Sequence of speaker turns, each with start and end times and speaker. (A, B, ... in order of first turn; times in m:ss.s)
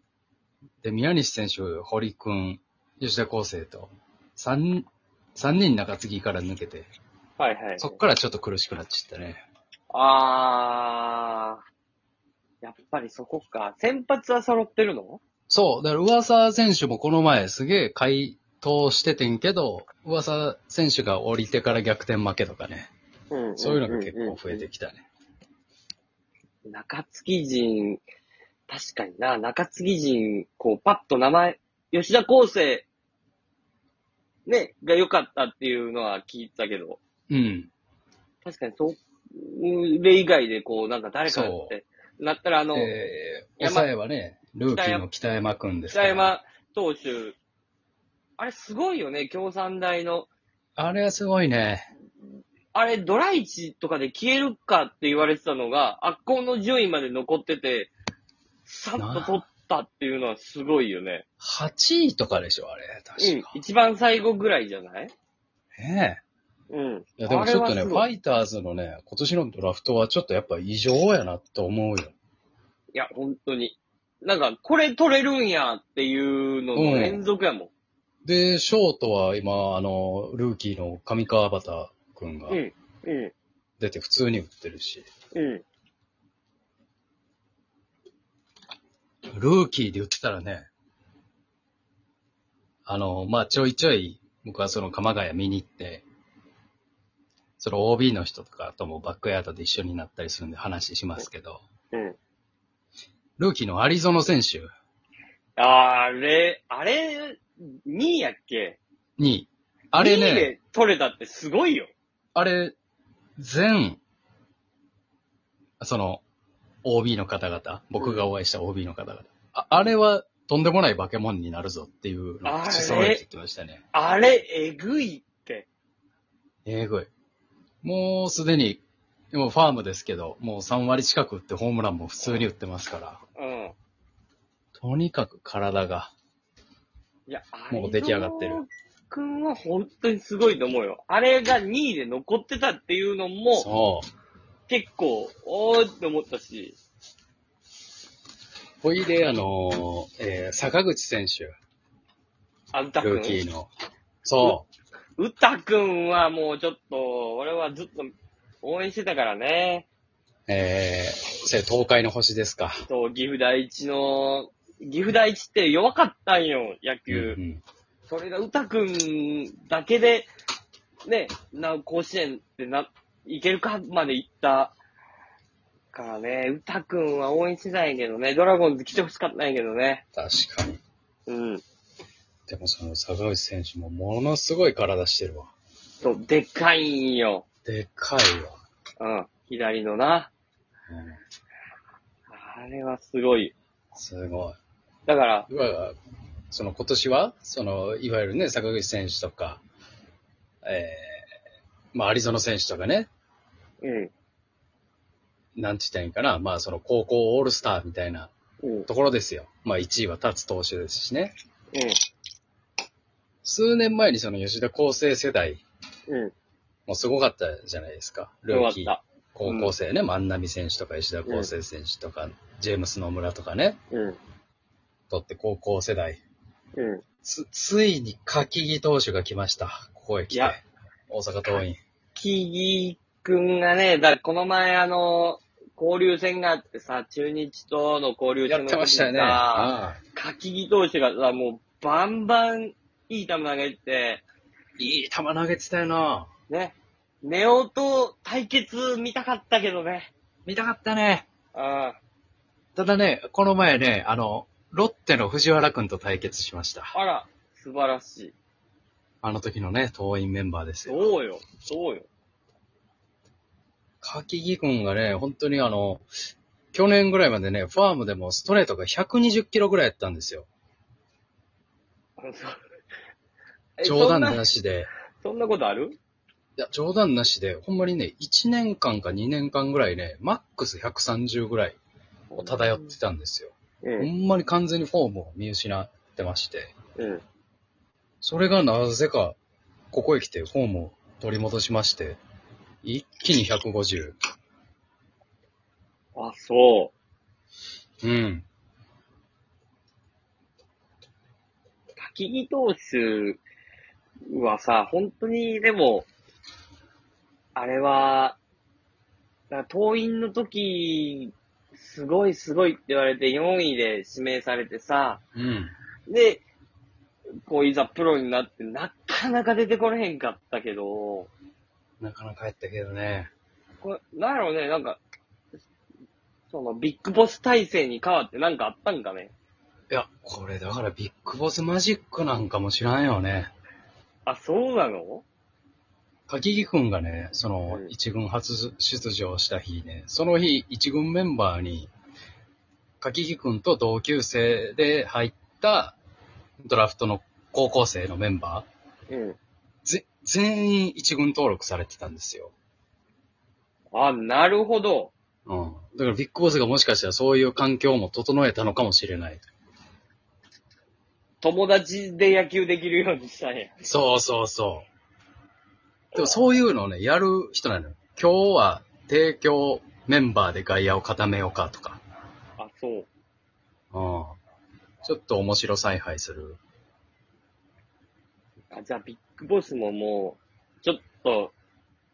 0:00.8-0:06.9 A
0:07.4-0:08.0 B
0:07.8-0:09.5 A
0:09.9-0:11.6 B
0:12.6-0:15.2 B
0:15.5-0:22.9 A
0:23.3-0:24.6 B
0:23.6-0:25.0 A
0:26.7-0:28.0 B
0:28.7-0:32.9 B
0:34.5-0:37.0 B
0:37.3-0:37.7 A
0:38.4-0:42.9 B
0:41.3-0:41.7 A
0:42.7-0:46.4 A
0:43.6-0:43.9 B
0:44.7-0:45.1 B
0:45.9-0:47.4 B
0:48.4-0:50.3 B
0:50.8-0:51.9 A
0:52.8-0:57.9 B
0:58.7-1:01.2 B
0:59.0-0:59.4 A
1:01.4-1:03.6 A
1:03.2-1:05.1 B
1:05.8-1:06.2 A
1:06.7-1:08.1 B
1:07.2-1:12.2 A
1:12.9-1:17.7 B
1:16.8-1:17.2 A
1:18.2-1:22.6 A
1:22.5-1:23.3 B
1:23.8-1:25.1 A
1:25.3-1:25.6 B
1:29.3-1:30.7 A
1:32.9-1:36.0 A
1:37.6-1:41.6 A
1:43.4-1:44.7 A
1:45.6-1:48.8 B
1:49.2-1:50.5 A
1:50.0-1:51.9 B
1:52.4-1:52.8 A
1:53.4-1:54.0 A
1:55.8-1:56.2 A
1:56.8-2:03.8 A
1:58.0-1:58.3 B
2:02.4-2:03.2 B
2:03.9-2:05.7 B
2:06.7-2:07.1 A
2:07.8-2:08.8 A
2:09.3-2:13.2 A
2:13.4-2:13.7 B
2:14.8-2:16.1 A
2:17.3-2:23.7 B
2:17.7-2:18.6 A
2:23.5-2:24.1 A
2:24.7-2:26.8 B
2:28.8-2:31.5 A
2:32.7-2:33.4 B
2:33.0-2:33.7 A
2:34.2-2:34.7 A
2:35.2-2:38.1 B
2:38.6-2:39.9 B
2:40.5-2:42.7 A
2:42.9-2:47.4 B
2:47.1-2:47.6 A
2:48.1-2:50.3 B
2:51.1-2:54.8 B
2:55.9-3:00.0 B
3:00.1-3:00.8 A
3:01.3-3:01.6 B
3:02.5-3:05.5 A
3:06.0-3:07.4 B
3:07.7-3:08.6 A
3:09.0-3:10.3 B
3:10.9-3:11.2 A
3:12.3-3:13.5 B
3:13.9-3:14.6 A
3:15.1-3:15.5 B
3:15.5-3:16.0 A
3:16.5-3:19.6 A
3:20.6-3:21.2 A
3:21.9-3:23.1 A
3:23.8-3:24.1 B
3:25.6-3:28.3 A
3:28.6-3:28.9 B
3:28.9-3:31.3 A
3:33.4-3:35.6 A
3:36.1-3:36.3 B
3:36.9-3:43.8 A
3:38.5-3:39.7 B
3:43.9-3:44.2 B
3:45.1-3:46.2 A
3:46.8-3:47.0 B
3:47.2-3:51.8 A
3:50.3-3:50.6 B
3:52.2-4:04.2 B
3:58.5-4:00.0 A
4:04.8-4:06.3 A
4:06.5-4:10.1 B
4:10.5-4:11.3 A
4:11.6-4:12.0 B
4:12.8-4:16.9 A
4:16.9-4:18.3 B
4:19.2-4:21.1 A
4:20.9-4:22.1 B
4:24.0-4:26.1 A
4:26.7-4:30.5 A
4:32.2-4:32.6 B
4:33.8-4:34.4 B
4:33.8-4:34.9 A
4:35.2-4:36.0 B
4:36.6-4:41.8 A
4:42.3-4:43.0 B
4:42.4-4:46.7 A
4:43.8-4:44.1 B
4:47.0-4:47.2 B
4:48.2-4:49.4 A
4:49.9-4:52.2 A
4:52.8-4:54.2 A
4:56.2-4:56.9 B
4:58.0-4:58.5 A
5:02.0-5:03.4 B
5:04.3-5:06.1 B
5:07.6-5:08.4 B
5:09.5-5:15.2 B
5:15.4-5:15.8 A
5:16.1-5:16.4 B
5:17.5-5:21.3 B
5:22.0-5:23.3 A
5:23.8-5:25.0 B
5:26.5-5:29.3 B
5:29.9-5:33.5 A
5:34.3-5:35.2 B
5:36.3-5:41.9 A
5:43.0-5:46.0 A
5:46.6-5:48.7 A
5:49.1-5:49.4 B
5:49.8-5:52.5 A
5:53.9-5:55.1 B
5:55.5-5:59.5 A
6:01.4-6:03.9 B
6:03.8-6:04.9 A
6:06.2-6:12.0 A
6:12.6-6:13.1 B
6:13.9-6:14.4 A
6:15.0-6:16.6 A
6:18.7-6:21.5 B